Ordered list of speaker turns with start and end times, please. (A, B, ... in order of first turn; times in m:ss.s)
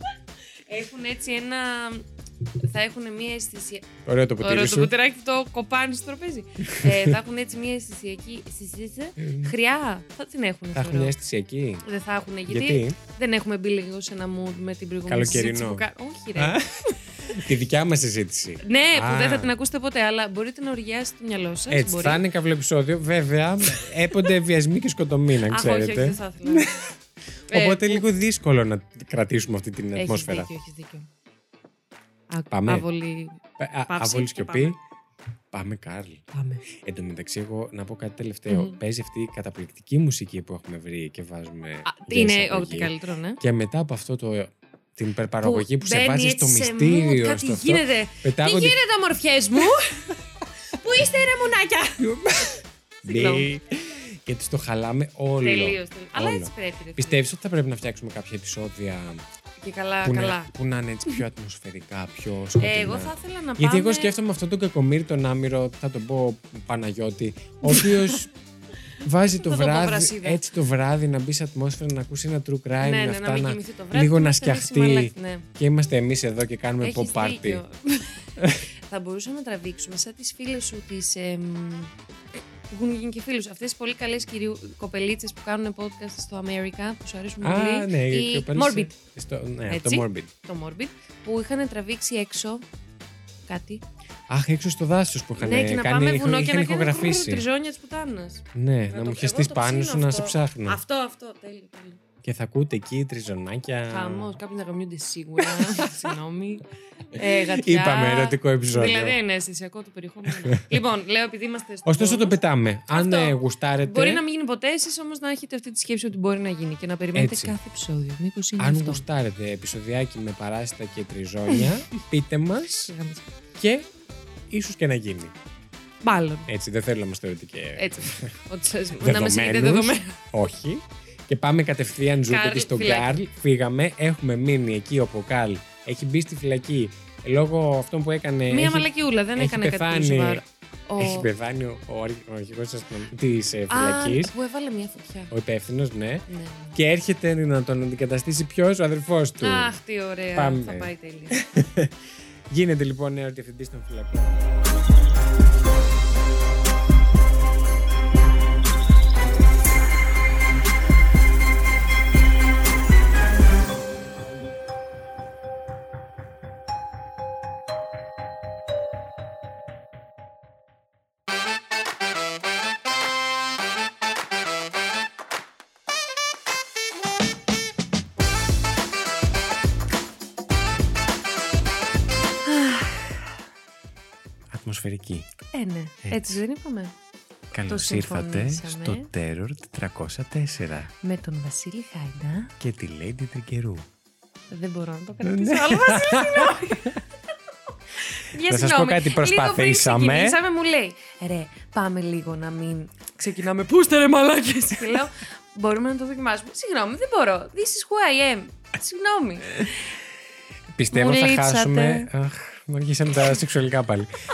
0:00.7-0:02.0 A
0:02.6-0:03.9 A
0:04.1-0:04.9 B
0:04.4-0:11.1 A
0:06.6-0:07.2 B
0:09.2-0:09.5 B
0:10.7-0:11.9 B
0:11.8-0:17.0 A
0:12.5-0:13.0 B
0:15.1-0:15.8 B
0:16.4-0:19.5 B
0:18.6-0:22.2 A
0:21.7-0:26.9 B
0:25.5-0:26.8 A
0:27.5-0:30.5 B
0:27.5-0:28.1 A
0:30.0-0:31.1 A
0:32.3-0:34.7 A
0:32.5-0:32.9 B
0:33.6-0:34.8 B
0:35.5-0:48.8 B
0:36.3-0:36.6 A
0:38.5-0:38.8 A
0:41.9-0:43.4 A
0:45.4-0:50.2 A
0:50.7-0:52.1 A
0:52.0-0:59.2 B
0:53.0-0:53.5 A
0:55.4-0:57.2 A
0:59.6-1:00.5 A
1:00.0-1:08.3 B
1:02.6-1:04.1 A
1:07.6-1:08.2 A
1:09.0-1:10.4 A
1:09.0-1:17.6 B
1:12.8-1:15.5 A
1:16.8-1:21.9 A
1:18.4-1:18.6 B
1:22.7-1:29.0 A
1:27.4-1:30.3 B
1:29.7-1:32.6 A
1:33.5-1:33.8 A
1:34.3-1:37.4 B
1:35.4-1:42.0 A
1:38.5-1:40.8 B
1:42.2-1:44.4 B
1:43.9-1:52.4 A
1:45.4-1:46.0 B
1:47.4-1:49.2 B
1:50.3-1:50.7 B
1:51.8-1:54.2 B
1:52.9-1:59.0 A
1:57.1-1:57.6 B
1:58.6-2:02.9 B
2:02.9-2:03.3 A
2:03.6-2:03.9 B
2:04.5-2:05.3 B
2:06.0-2:06.5 A
2:06.5-2:08.3 B
2:07.8-2:10.2 A
2:09.0-2:20.4 B
2:12.2-2:13.2 A
2:18.5-2:21.3 A
2:21.0-2:24.3 B
2:23.7-2:25.3 A
2:25.3-2:29.7 B
2:26.3-2:26.8 A
2:29.4-2:31.4 A
2:30.4-2:31.9 B
2:32.5-2:34.6 B
3:02.4-3:03.3 A
3:04.5-3:05.3 B
3:05.5-3:06.9 A
3:06.0-3:06.3 B
3:07.5-3:10.9 B
3:07.7-3:09.1 A
3:11.0-3:12.5 A
3:12.6-3:13.9 B
3:14.5-3:17.0 A
3:15.2-3:17.0 B
3:18.0-3:29.9 A
3:18.4-3:20.4 B
3:30.8-3:34.1 B
3:30.9-3:32.1 A